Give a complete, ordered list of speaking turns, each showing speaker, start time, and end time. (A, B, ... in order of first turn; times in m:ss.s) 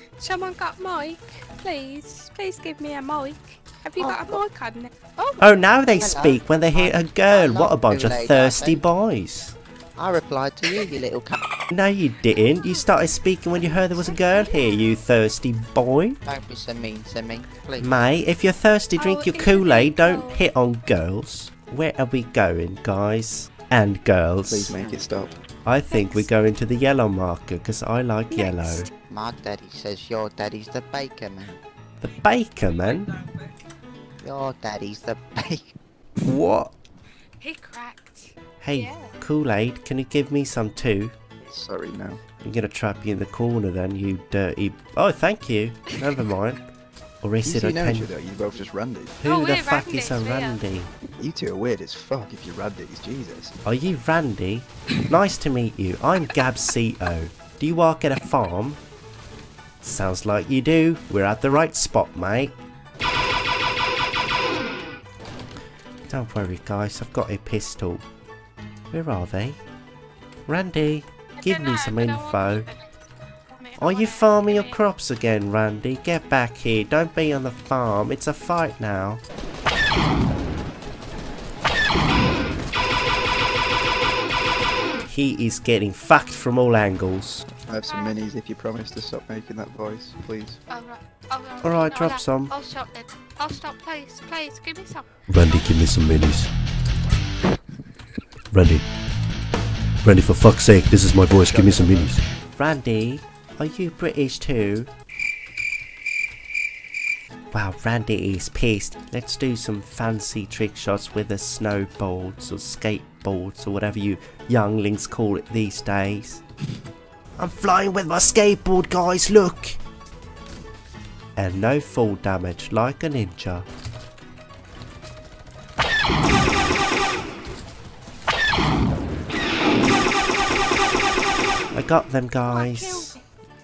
0:00.2-0:05.5 A
0:04.0-0:04.4 B
0:05.4-0:09.6 C
0:06.0-0:08.8 B
0:10.0-0:11.4 B
0:11.7-0:16.2 C
0:13.8-0:15.0 A
0:16.2-0:17.9 B
0:17.8-0:24.8 C
0:19.0-0:20.4 A
0:24.4-0:25.4 D
0:25.6-0:28.9 C
0:25.9-0:26.3 A
0:28.3-0:28.9 A
0:29.1-0:31.6 B
0:32.0-0:33.2 C
0:34.2-0:35.7 B
0:36.2-0:36.7 C
0:37.4-0:39.2 A
0:38.6-0:41.1 C
0:41.4-0:42.2 D
0:42.4-0:46.6 C
0:47.2-0:48.1 C
0:47.4-0:49.2 D
0:49.2-0:50.9 C
0:49.2-0:50.6 A
0:51.2-0:53.6 D
0:53.6-0:58.8 C
0:59.8-1:02.6 C
1:06.1-1:08.0 C
1:08.9-1:09.6 C
1:10.5-1:12.7 C
1:11.4-1:12.8 A
1:13.5-1:14.8 A
1:13.8-1:19.2 C
1:25.1-1:27.4 C
1:27.6-1:30.6 D
1:27.8-1:28.2 A
1:30.7-1:35.8 A
1:31.6-1:32.6 C
1:35.3-1:36.5 C
1:38.5-1:38.8 C
1:40.0-1:44.9 C
1:41.4-1:42.2 D
1:47.5-1:56.4 C
1:57.4-1:59.8 C
2:01.4-2:03.7 C
2:11.7-2:13.2 C
2:12.5-2:13.2 A